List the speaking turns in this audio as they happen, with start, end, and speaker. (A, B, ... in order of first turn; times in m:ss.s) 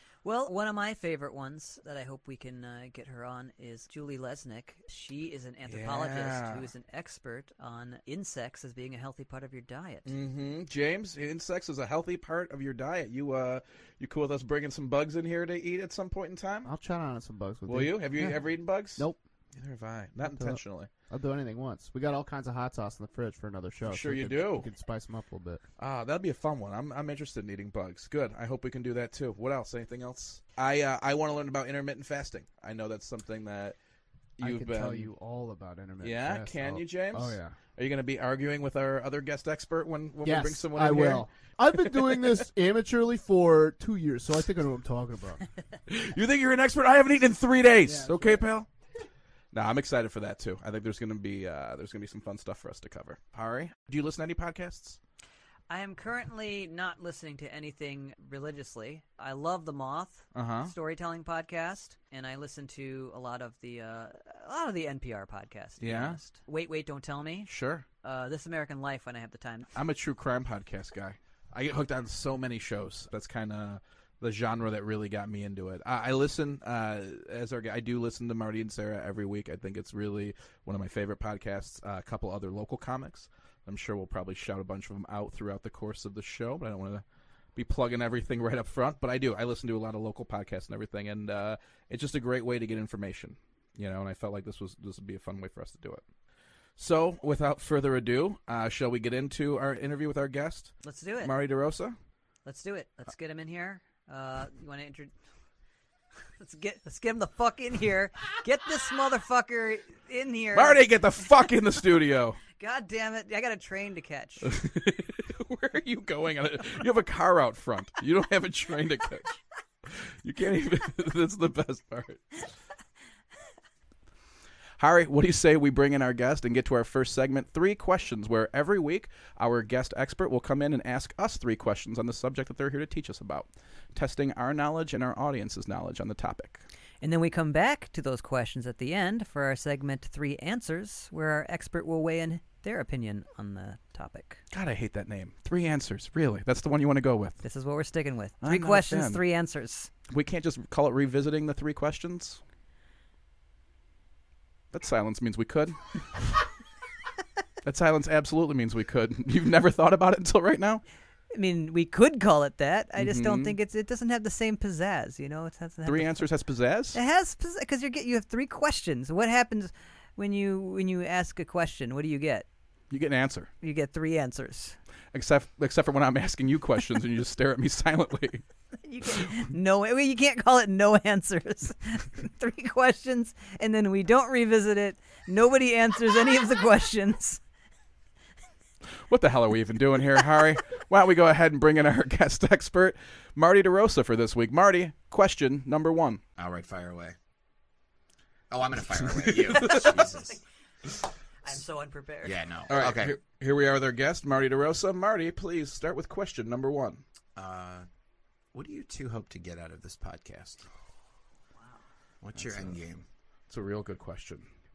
0:00.2-0:10.1 A
0:05.7-0:06.7 B
0:10.0-0:16.7 B
0:16.6-0:18.4 C
0:17.6-0:20.9 B
0:21.1-0:25.6 C
0:23.8-0:24.7 B
0:25.8-0:33.8 B
0:34.4-0:35.1 B
0:34.4-0:37.5 C
0:36.0-0:42.3 B
0:40.2-0:45.5 C
0:45.9-0:48.7 B
0:47.8-0:48.4 C
0:49.5-0:55.0 B
0:55.7-1:07.5 A
1:00.3-1:00.7 B
1:05.8-1:06.2 B
1:07.5-1:07.8 B
1:08.0-1:09.7 A
1:09.7-1:27.0 B
1:27.5-1:36.0 B
1:36.8-1:41.9 B
1:40.8-1:41.3 A
1:42.4-1:45.1 A
1:46.4-1:50.8 A
1:50.5-1:52.4 B
1:52.5-1:54.5 A
1:54.4-2:02.4 B
2:04.8-2:16.6 B
2:17.0-2:24.4 A
2:24.5-2:27.4 B
2:27.4-2:29.9 A
2:28.4-2:29.2 B
2:30.1-2:32.4 B
2:34.7-2:36.4 B
2:37.6-2:40.8 B
2:41.3-2:46.3 A
2:43.0-2:43.6 B
2:45.8-2:47.0 B
2:46.9-2:52.5 A
2:52.9-2:53.5 B
2:53.6-2:54.8 A
2:55.1-2:58.4 B
2:58.8-3:07.4 A
3:09.1-3:16.2 B
3:16.4-3:17.2 D
3:18.5-3:20.4 D
3:19.0-3:20.1 B
3:19.6-3:20.4 A
3:21.4-3:22.4 A
3:22.2-3:23.2 D
3:22.7-3:27.0 B
3:27.4-3:27.9 D
3:28.5-3:30.6 D
3:32.2-3:33.0 D
3:32.4-3:32.8 B
3:33.5-3:34.4 B